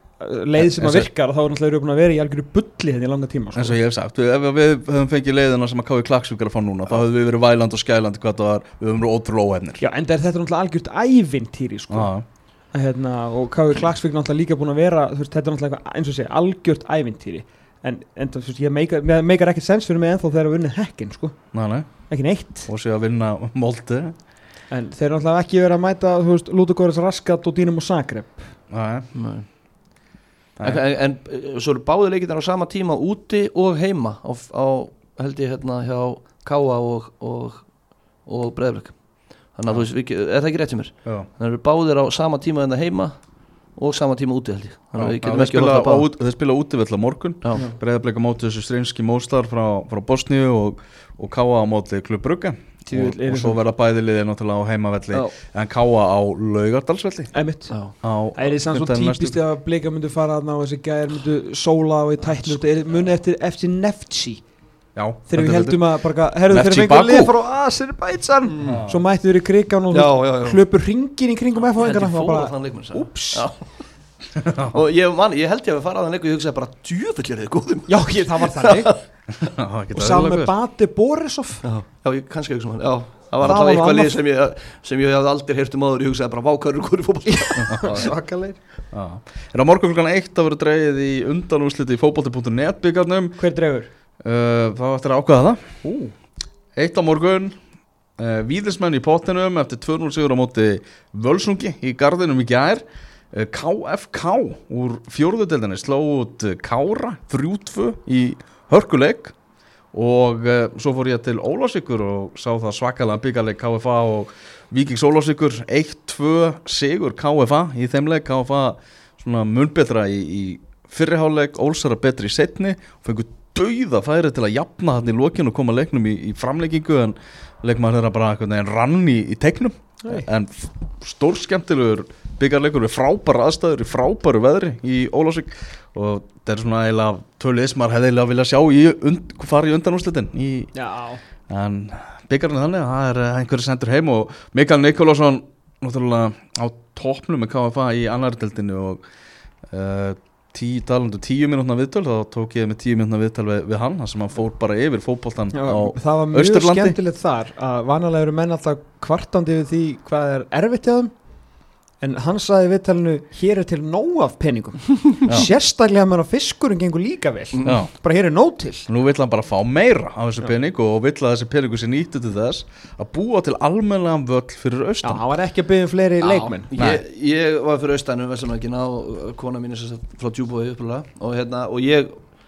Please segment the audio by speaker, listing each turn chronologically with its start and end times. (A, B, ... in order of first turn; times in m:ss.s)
0:00.2-0:03.8 A
0:00.6-0:01.1 B
0:03.5-0:09.8 B
0:09.8-0:12.1 A
0:11.9-0:12.2 B
0:12.7-0:21.4 A
0:21.5-0:22.1 B
0:22.1-0:22.7 A
0:22.7-0:24.2 B
0:24.7-0:28.5 A
0:28.7-0:29.1 B
0:29.1-0:29.5 C
0:30.6-0:37.7 C
0:38.2-0:43.2 C
0:43.8-0:46.1 C
0:45.0-0:57.3 B
0:52.9-0:53.6 A
0:57.3-0:57.7 A
0:58.0-0:59.4 B
0:58.4-1:04.4 A
1:05.0-1:07.3 B
1:05.3-1:13.5 A
1:08.5-1:08.8 C
1:08.6-1:09.0 B
1:09.9-1:10.6 C
1:11.6-1:13.6 C
1:14.4-1:14.8 B
1:14.7-1:19.0 C
1:17.9-1:18.9 A
1:19.3-1:20.5 B
1:19.9-1:21.6 A
1:21.6-1:28.1 C
1:23.4-1:24.2 A
1:27.4-1:28.6 A
1:27.6-1:27.9 B
1:28.9-1:33.4 B
1:33.4-1:33.9 A
1:34.2-1:35.8 B
1:35.8-1:36.1 A
1:36.8-1:37.6 B
1:38.2-1:49.4 B
1:49.9-2:20.7 B
2:20.7-2:21.2 A
2:21.5-2:29.0 B
2:29.7-2:37.0 B
2:35.5-2:41.1 A
2:42.0-2:48.9 A
2:47.6-2:47.9 B
2:48.9-2:55.2 B
2:55.0-2:56.7 A
2:56.2-3:02.2 C
2:56.8-2:57.0 B